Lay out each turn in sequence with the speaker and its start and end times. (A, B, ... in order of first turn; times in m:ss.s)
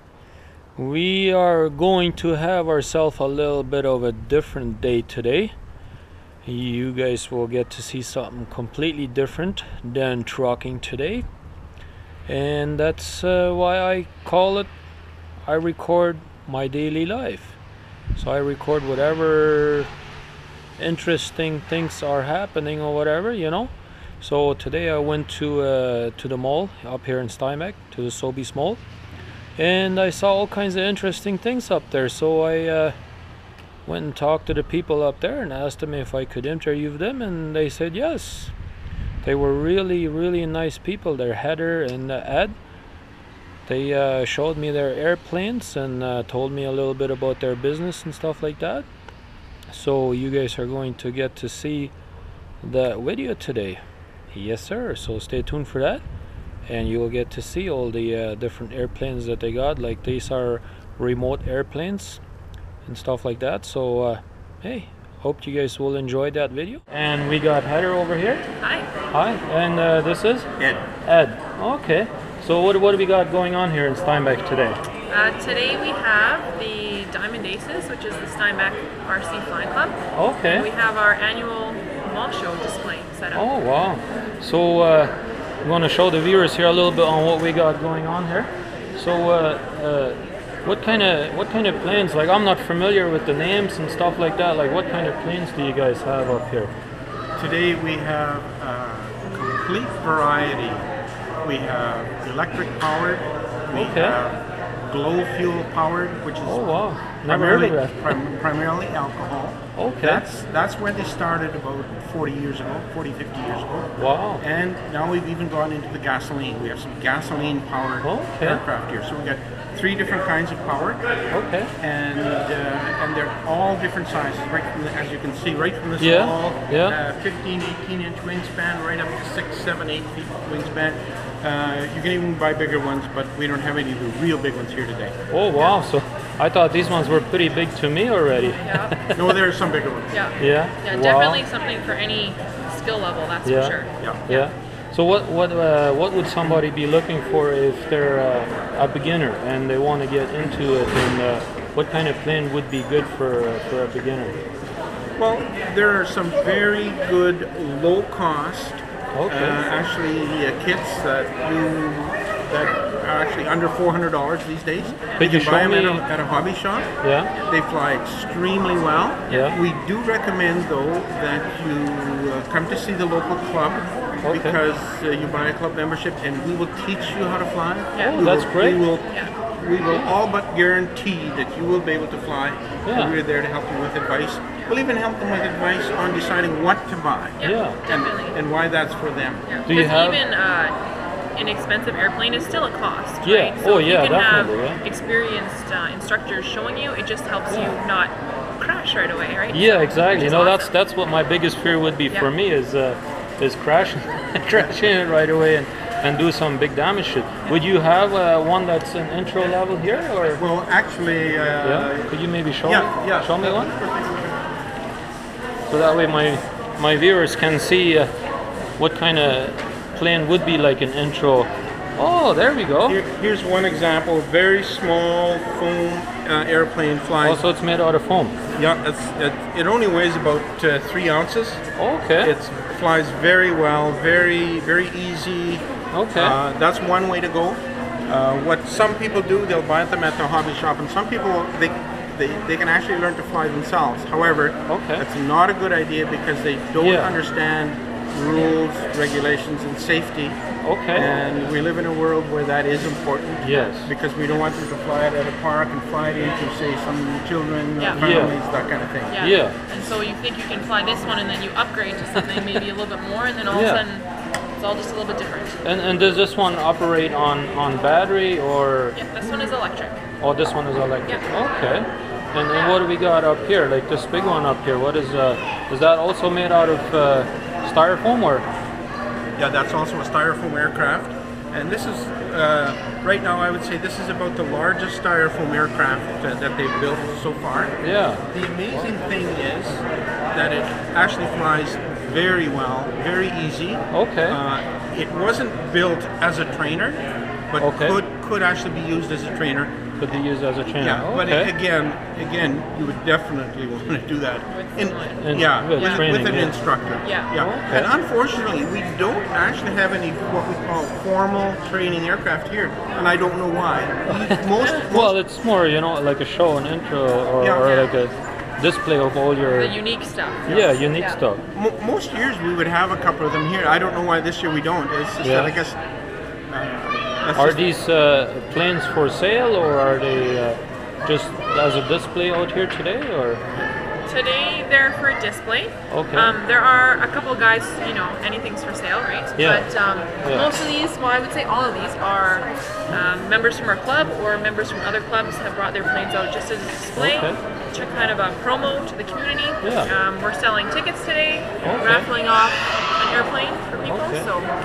0:00.8-0:05.5 A
0:06.4-0:11.2 A
0:12.3-0:14.7 A
0:15.4-0:17.6 A
0:18.1-0:19.9 A
0:20.8-0:28.8 A
0:29.6-0:32.9 A
0:33.8-0:38.5 A
0:39.2-0:42.5 A
0:43.6-0:48.8 A
0:49.7-0:51.9 A
0:52.6-0:53.8 A
0:54.3-0:56.0 A
0:56.7-1:02.2 A
1:02.8-1:08.4 A
1:08.6-1:08.9 B
1:09.1-1:10.5 A
1:10.6-1:10.8 C
1:11.0-1:14.8 A
1:15.1-1:23.5 B
1:20.1-1:20.7 A
1:23.3-1:25.1 A
1:25.6-1:36.7 A
1:37.4-1:40.9 C
1:41.4-1:46.6 C
1:43.7-1:44.2 A
1:46.4-1:48.2 A
1:47.2-2:01.0 C
1:49.8-1:50.2 A
1:54.0-1:54.4 A
1:58.0-1:58.6 A
2:01.3-2:01.7 A
2:01.8-2:15.1 C
2:06.0-2:07.0 A
2:15.3-2:19.2 A
2:18.6-2:19.0 B
2:19.1-2:20.1 C
2:20.1-2:24.5 B
2:20.4-2:21.4 A
2:23.4-2:34.4 A
2:35.2-2:46.9 C
2:39.1-2:39.6 A
2:45.2-2:46.0 A
2:47.0-2:47.3 A
2:47.4-3:09.4 C
2:49.3-2:49.5 B
2:49.3-2:49.6 A
2:54.2-2:54.6 A
2:57.9-2:58.2 B
2:58.0-2:58.8 A
2:59.9-3:00.2 A
3:02.8-3:03.1 A
3:07.4-3:08.4 B
3:07.4-3:07.8 A
3:09.4-3:10.8 B
3:09.6-3:10.2 A
3:11.4-3:20.7 B
3:13.2-3:14.8 A
3:19.5-3:30.4 A
3:30.4-3:34.4 C
3:31.6-3:33.7 A
3:35.7-3:38.1 A
3:38.8-3:43.0 A
3:42.8-3:47.4 C
3:47.2-3:48.4 A
3:48.5-3:51.6 C
3:51.8-3:52.3 A
3:52.2-4:10.4 C
3:55.9-3:56.4 A
4:04.7-4:05.0 A
4:06.8-4:07.1 A
4:10.6-4:11.1 A
4:10.9-4:19.2 C
4:13.4-4:13.9 A
4:17.8-4:18.0 B
4:17.9-4:18.3 A
4:19.1-4:24.0 B
4:19.2-4:19.6 A
4:22.2-4:22.6 A
4:23.5-4:23.8 A
4:24.6-4:25.5 B
4:25.6-4:29.0 A
4:28.9-4:30.0 B
4:30.2-4:38.5 A
4:32.5-4:32.8 B
4:39.4-4:59.8 C
4:47.8-4:48.2 A
4:53.9-4:54.4 A
4:57.6-4:58.0 A
5:00.0-5:01.5 A
5:00.7-5:15.2 C
5:04.5-5:06.1 B
5:05.2-5:06.6 A
5:07.0-5:07.3 B
5:07.3-5:07.9 A
5:14.1-5:19.8 A
5:14.6-5:14.8 B
5:17.4-5:17.8 C
5:19.5-5:21.2 B
5:20.4-5:21.4 A
5:21.5-5:25.8 C
5:25.2-5:25.6 A
5:26.5-5:27.7 C
5:27.3-5:33.4 A
5:34.1-5:54.5 B
5:35.9-5:36.3 A
5:39.4-5:39.6 A
5:40.2-5:40.7 A
5:47.0-5:47.4 A
5:49.6-5:49.9 A
5:51.6-5:52.1 A
5:53.8-5:54.3 A